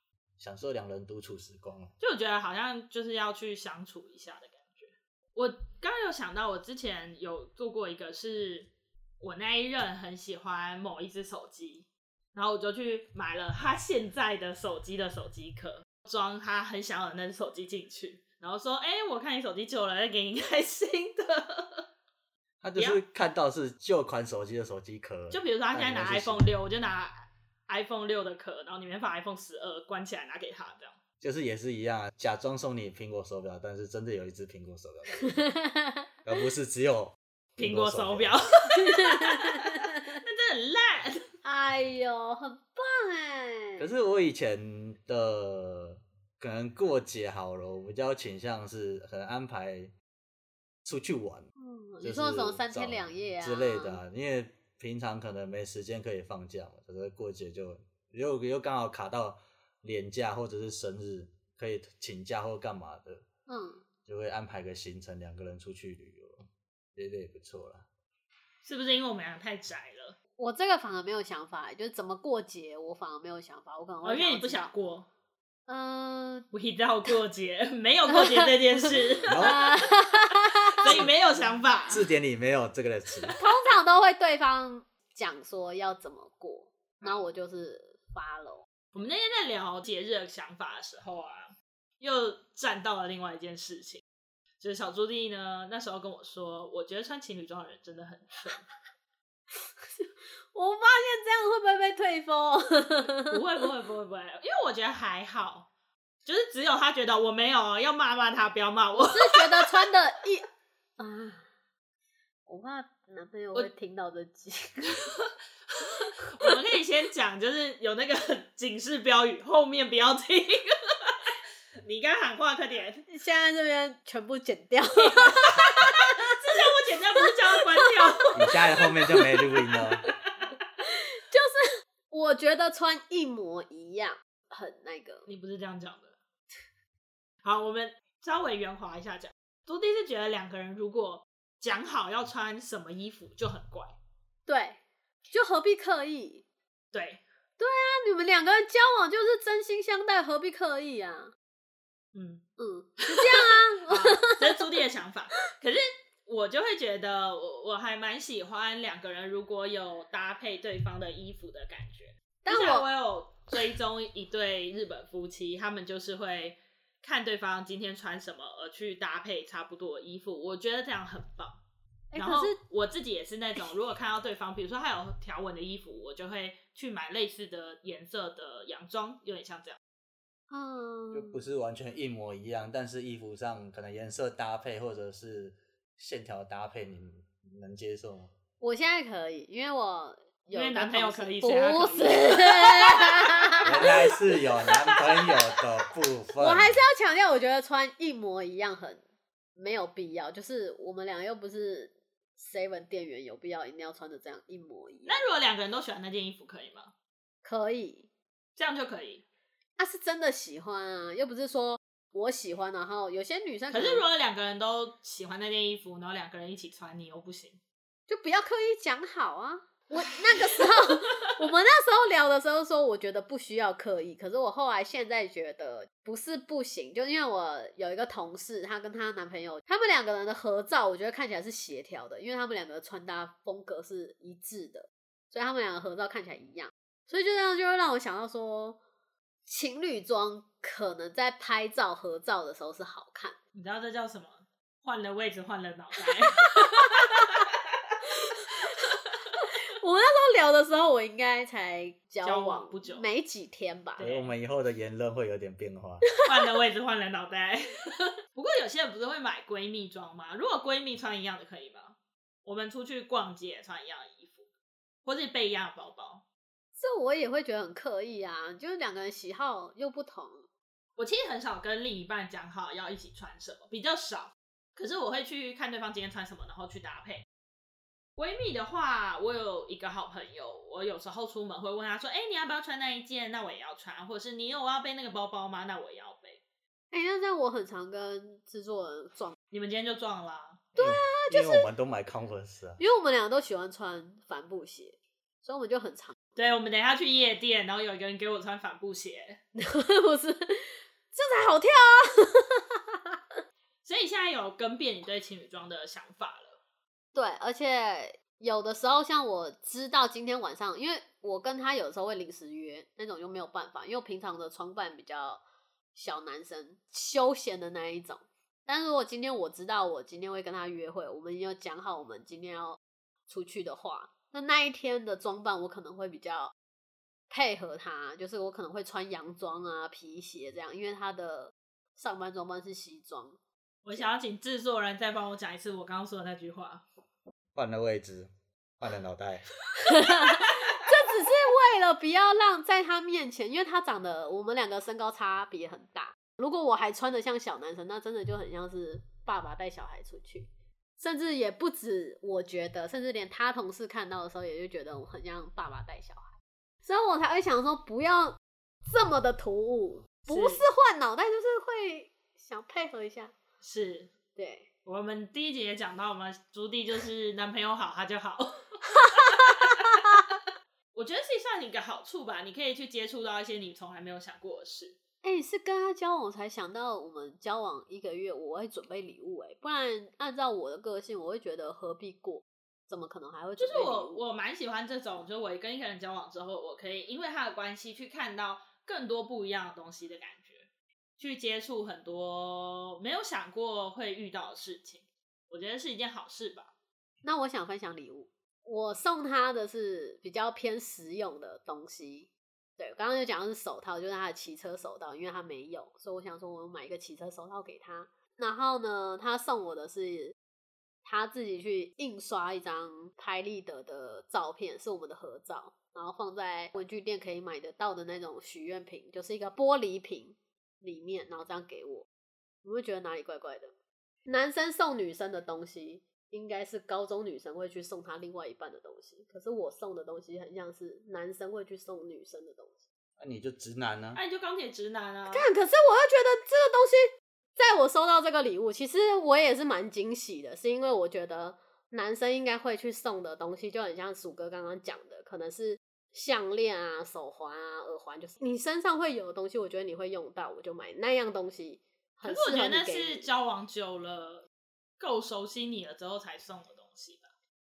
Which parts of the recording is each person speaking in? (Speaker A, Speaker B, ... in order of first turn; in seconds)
Speaker A: 0.4-1.9, 22.6-26.5, 31.2-35.4, 36.2-38.4, 43.8-49.9, 50.9-51.5, 52.0-63.2, 64.1-67.9, 79.3-79.7, 80.8-81.1, 81.9-83.4, 128.3-130.0, 181.1-188.3, 193.7-196.8, 254.0-256.0, 290.8-292.8, 337.6-339.5, 433.2-434.2
Speaker B: 2.0-21.9, 25.3-31.0, 37.6-41.3, 68.6-70.2, 74.0-75.1, 76.5-79.7, 80.8-82.1, 88.9-94.0, 94.6-98.7, 103.2-105.7, 106.2-109.9, 115.1-123.0, 125.0-128.6, 135.3-136.2, 137.4-144.0, 146.9-147.2, 152.1-152.4, 153.0-171.6, 172.2-179.8, 190.5-193.1, 205.1-206.9, 208.6-209.2, 213.7-217.6, 220.4-220.9, 243.5-247.4, 252.2-253.1, 254.0-254.3, 256.2-264.4, 265.1-266.2, 271.0-277.2, 278.2-286.4, 289.5-290.7, 296.4-299.4, 303.9-306.6, 333.9-336.8, 360.3-360.6, 363.6-364.1, 364.9-370.1, 370.9-375.0, 383.6-390.7, 391.2-396.7, 434.1-435.5, 452.2-454.5, 455.0-457.3
Speaker C: 35.2-36.1, 38.8-40.2, 41.4-43.9, 51.6-54.0, 63.5-63.8, 70.4-74.7, 75.7-76.5, 78.1-81.0, 83.4-88.7, 100.0-103.4, 109.0-110.5, 111.0-111.5, 112.5-115.0, 123.1-126.6, 127.2-129.8, 130.8-135.3, 144.5-144.8, 145.3-146.4, 147.6-151.3, 152.6-154.6, 162.4-162.9, 172.1-172.6, 180.5-181.4, 188.6-194.1, 196.4-199.0, 199.6-205.2, 207.4-208.1, 209.8-214.1, 218.1-238.8, 239.5-243.4, 246.5-247.4, 248.1-248.8, 249.4-254.0, 266.8-270.5, 286.9-289.4, 290.8-291.7, 292.8-296.2, 299.6-303.2, 307.1-315.4, 315.9-326.5, 327.3-333.4, 339.8-363.3, 364.4-364.7, 369.0-370.2, 375.2-384.2, 397.2-410.4, 411.0-422.1, 422.6-423.7, 424.3-432.8, 435.3-453.3